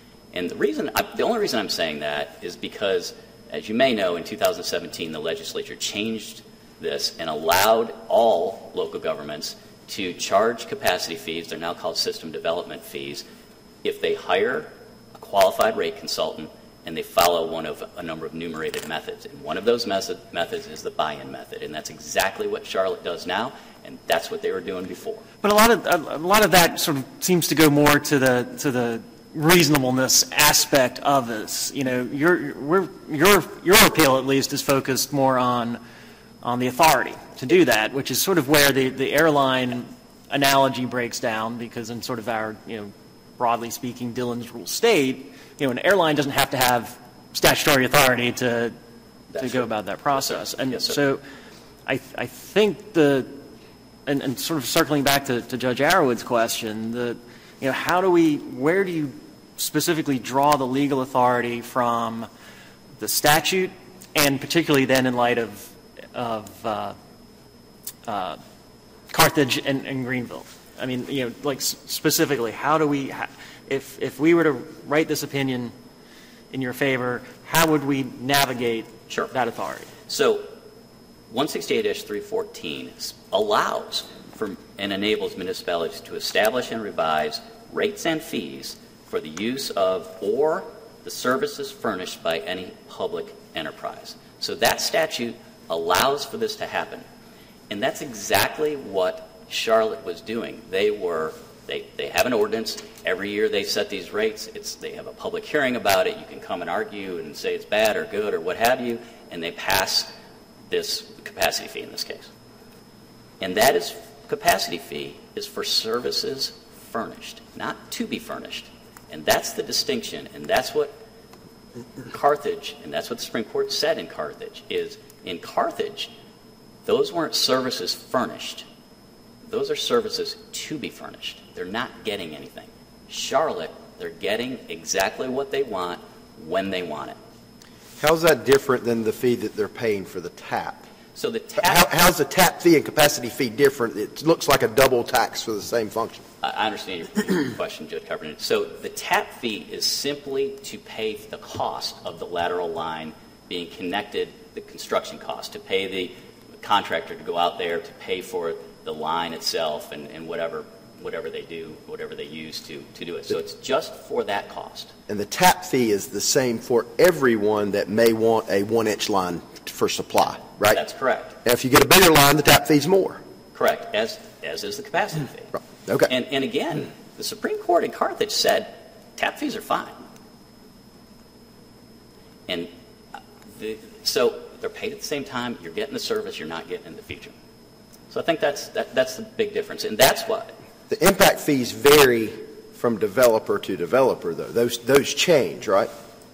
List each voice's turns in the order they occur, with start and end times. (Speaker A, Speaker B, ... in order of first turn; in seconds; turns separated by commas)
Speaker A: 0.3-13.2, Speaker A: 13.8-25.2, Speaker B: 25.4-35.8, Speaker B: 36.4-48.8, Speaker A: 49.3-51.0, Speaker B: 49.4-51.2, Speaker B: 51.9-53.3, Speaker B: 54.1-62.3, Speaker B: 63.0-67.0, Speaker B: 68.0-68.4, Speaker B: 69.1-75.7, Speaker B: 76.5-79.9, Speaker A: 80.1-80.5, Speaker A: 81.3-97.0, Speaker A: 97.7-110.1, Speaker A: 110.7-112.3, Speaker A: 113.4-120.9, Speaker A: 122.1-126.1, Speaker A: 126.9-128.7, Speaker A: 129.4-137.2, Speaker C: 138.0-140.9, Speaker A: 141.2-141.9, Speaker C: 141.6-146.2, Speaker A: 146.4-164.9, Speaker C: 165.1-170.8, Speaker A: 170.7-171.4, Speaker C: 171.4-173.2, Speaker A: 173.5-175.5, Speaker C: 175.8-176.1, Speaker A: 176.1-180.0, Speaker A: 182.5-187.3, Speaker A: 188.1-190.6, Speaker C: 190.9-195.9